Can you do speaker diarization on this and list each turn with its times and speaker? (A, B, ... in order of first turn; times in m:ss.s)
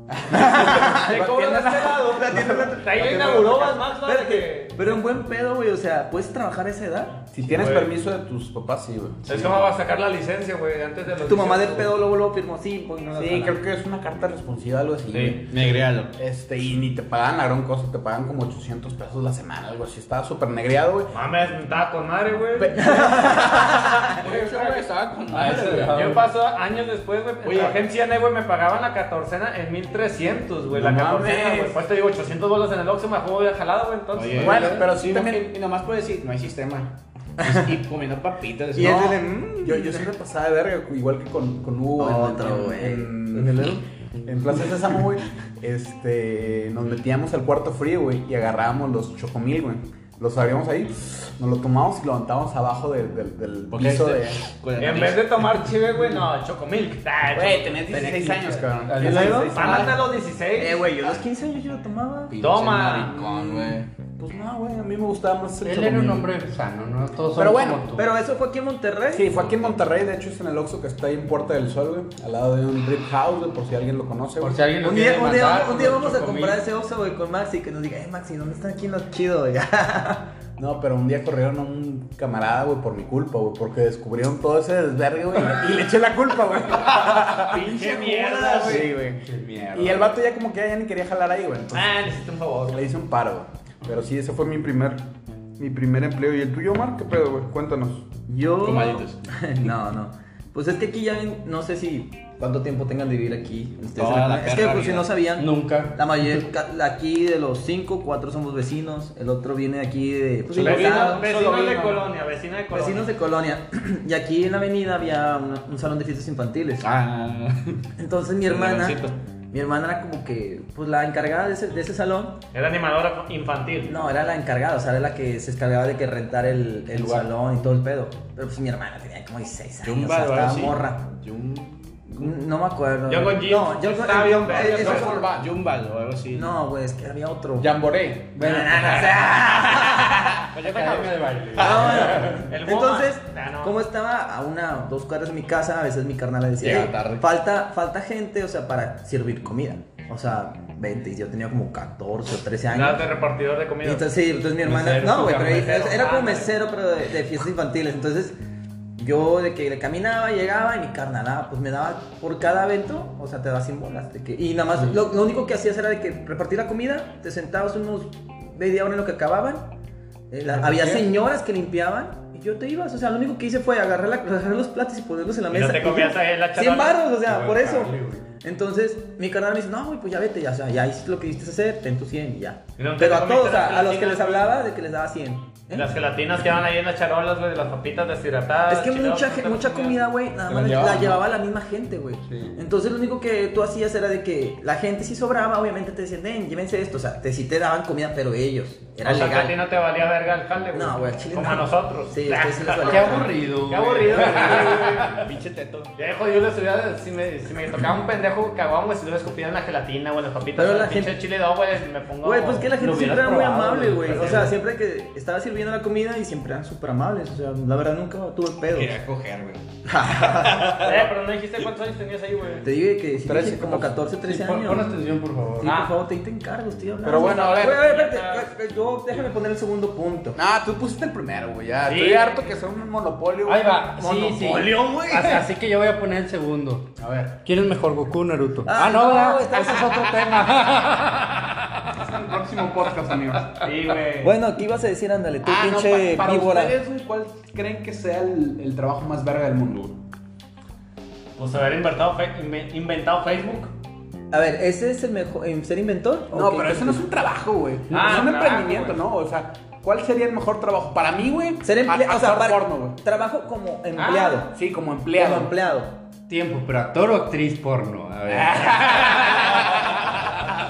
0:00.2-0:03.3 A
0:00.3-0:07.2 B
0:00.8-0:05.0 C
0:07.3-0:09.6 A
0:07.4-0:07.9 C
0:09.2-0:11.9 C
0:11.2-0:13.6 B
0:13.1-0:21.1 A
0:15.1-0:16.1 D
0:21.1-0:24.8 C
0:22.6-0:23.4 A
0:22.7-0:24.2 B
0:23.4-0:26.1 D
0:25.3-0:26.2 E
0:25.6-0:25.9 A
0:25.9-0:34.6 C
0:27.4-0:27.8 D
0:30.7-0:31.8 A
0:34.1-0:39.1 D
0:34.3-0:34.9 E
0:34.4-0:35.5 A
0:37.4-0:37.7 B
0:38.7-0:40.1 B
0:38.7-0:54.4 A
0:42.0-0:43.8 B
0:53.7-0:55.4 D
0:54.8-0:58.2 C
0:57.3-1:00.0 A
0:57.9-0:59.5 E
0:59.0-1:00.8 C
0:59.0-0:59.9 B
1:00.6-1:02.4 B
1:02.3-1:03.9 D
1:02.4-1:03.2 C
1:03.1-1:06.3 A
1:05.6-1:08.1 E
1:07.3-1:07.9 A
1:08.0-1:09.3 B
1:09.1-1:14.6 A
1:14.4-1:16.6 E
1:14.8-1:20.3 B
1:20.6-1:32.0 A
1:27.0-1:28.9 C
1:28.6-1:28.9 D
1:29.2-1:30.1 E
1:31.7-1:32.8 C
1:32.7-1:35.0 A
1:35.6-1:38.0 A
1:38.3-1:51.2 B
1:38.6-1:39.3 D
1:44.0-1:45.1 D
1:45.4-1:46.0 E
1:50.5-1:52.0 D
1:50.6-1:53.1 C
1:52.7-1:56.8 B
1:56.8-1:57.8 D
1:58.0-2:02.4 B
1:58.5-1:59.2 D
2:02.5-2:03.9 C
2:03.8-2:11.1 B
2:09.8-2:12.3 D
2:12.2-2:15.2 B
2:13.1-2:15.2 C
2:14.4-2:15.5 A
2:14.7-2:16.5 D
2:16.3-2:17.8 B
2:17.6-2:19.0 A
2:18.4-2:19.2 E
2:18.4-2:20.4 B
2:20.6-2:22.4 E
2:20.6-2:21.1 C
2:20.6-2:20.9 D
2:21.6-2:33.1 B
2:22.2-2:23.7 C
2:26.6-2:27.2 A
2:32.7-2:34.1 C
2:33.8-2:38.4 B
2:34.6-2:35.8 E
2:35.3-2:36.5 C
2:39.0-2:49.7 B
2:50.3-3:05.9 B
2:50.6-2:51.0 A
2:55.5-2:57.0 C
2:57.2-2:58.2 E
3:02.8-3:04.6 C
3:05.7-3:10.0 C
3:08.7-3:19.6 B
3:10.5-3:11.2 A
3:12.3-3:12.5 A
3:19.0-3:34.6 C
3:20.7-3:23.3 B
3:22.8-3:25.2 E
3:30.6-3:31.2 B
3:32.2-3:38.9 B
3:38.7-3:39.6 D
3:39.8-3:41.0 B
3:40.3-3:40.8 D
3:40.7-3:42.6 C
3:42.6-3:44.9 B
3:43.2-3:44.0 A
3:44.2-3:45.8 E
3:45.6-3:50.4 B
3:45.6-3:45.9 C
3:47.0-3:47.8 A
3:47.2-3:48.5 C
3:50.4-3:53.8 A
3:51.8-3:52.5 C
3:53.4-4:01.8 E
3:54.0-3:55.4 B
3:57.0-3:57.4 A
3:58.6-4:00.3 B
4:01.9-4:03.6 A
4:03.6-4:04.3 C
4:04.2-4:06.7 B
4:05.4-4:10.0 A
4:11.4-4:13.7 C
4:14.3-4:17.0 B
4:16.3-4:23.0 A
4:17.9-4:19.0 C
4:21.6-4:24.5 B
4:24.0-4:24.5 C
4:24.5-4:25.5 A
4:25.1-4:26.0 B
4:26.3-4:29.6 E
4:28.3-4:30.3 A
4:29.1-4:29.5 C